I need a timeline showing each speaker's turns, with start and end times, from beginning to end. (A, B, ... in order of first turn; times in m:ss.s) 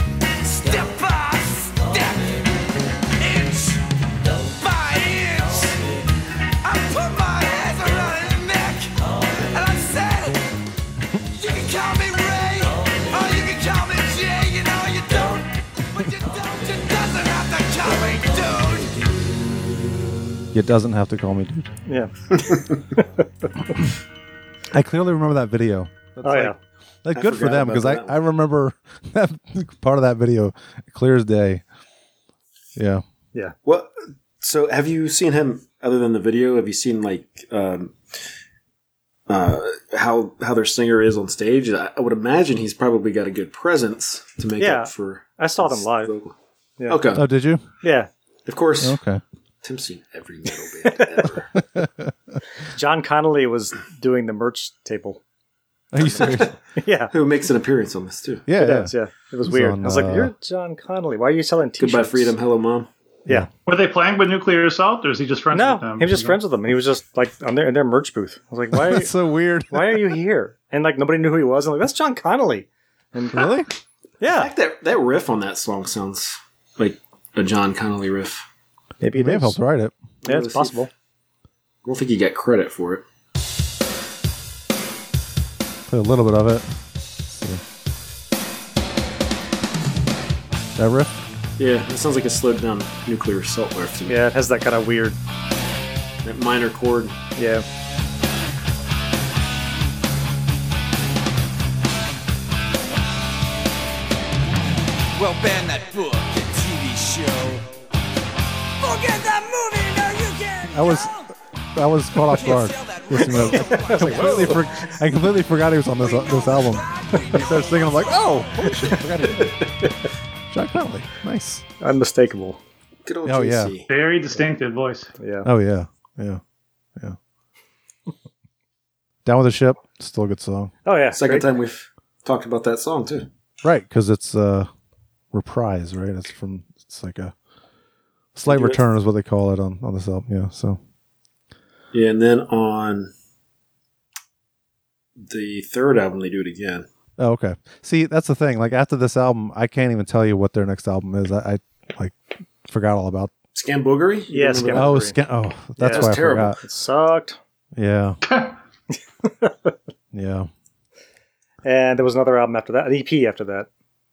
0:00.4-0:02.4 A
0:03.2-0:03.8 A
0:04.4-0:05.8 A
0:06.6-0:09.0 A
0:09.5-0:10.4 A
0:11.3-0:19.0 A
0:20.5-0:21.7 B
0:21.9-0:22.1 C
0:22.3-0:22.8 D
0:24.7-0:31.6 B
0:26.2-0:26.5 C
0:27.1-0:28.2 D
0:32.8-0:33.0 B
0:33.6-0:38.0 D
0:39.3-0:46.3 D
0:44.6-0:46.1 C
0:46.8-0:47.0 C
0:46.9-0:47.2 D
0:47.1-0:47.7 B
0:47.8-0:48.1 C
0:48.4-0:49.0 D
0:48.8-0:49.2 B
0:49.6-0:51.5 D
0:51.7-0:52.1 B
0:52.7-0:55.2 C
0:55.9-0:56.5 B
0:56.1-0:56.5 D
0:56.2-0:57.1 C
0:57.1-0:58.4 D
0:58.5-0:58.9 B
0:58.6-1:02.3 C
0:59.4-1:00.3 B
1:01.8-1:02.9 D
1:03.6-1:06.4 E
1:05.5-1:09.1 C
1:08.7-1:10.1 B
1:09.7-1:13.5 C
1:13.3-1:13.7 B
1:14.2-1:14.5 C
1:14.2-1:18.4 D
1:19.0-1:19.6 C
1:19.1-1:19.9 B
1:20.2-1:20.8 D
1:20.2-1:20.9 C
1:21.8-1:23.0 D
1:25.9-1:26.7 B
1:27.3-1:27.6 B
1:30.8-1:31.1 B
1:31.6-1:34.2 D
1:34.1-1:35.2 C
1:36.2-1:37.2 D
1:37.4-1:37.6 C
1:45.1-1:47.7 A
1:48.8-1:51.3 A
1:50.7-1:51.1 B
1:51.8-1:59.6 B
1:52.3-1:54.6 A
1:53.7-1:54.6 C
1:56.0-1:59.0 A
2:00.5-2:01.6 B
2:01.8-2:02.6 C
2:03.0-2:03.9 D
2:03.2-2:03.7 B
2:03.9-2:05.1 E
2:05.2-2:05.5 C
2:05.4-2:06.4 B
2:09.2-2:10.7 B
2:10.8-2:11.4 C
2:11.1-2:13.3 D
2:13.6-2:14.7 B
2:15.3-2:17.3 B
2:18.3-2:20.8 B
2:18.5-2:18.8 D
2:21.9-2:23.1 D
2:25.2-2:26.8 D
2:27.2-2:32.2 B
2:32.7-2:33.3 B
2:33.5-2:35.0 D
2:34.3-2:35.2 C
2:34.7-2:36.6 B
2:35.8-2:37.4 C
2:35.8-2:36.6 D
2:37.8-2:38.2 B
2:38.3-2:38.5 E
2:39.2-2:39.7 C
2:40.1-2:40.5 B
2:41.6-2:43.7 C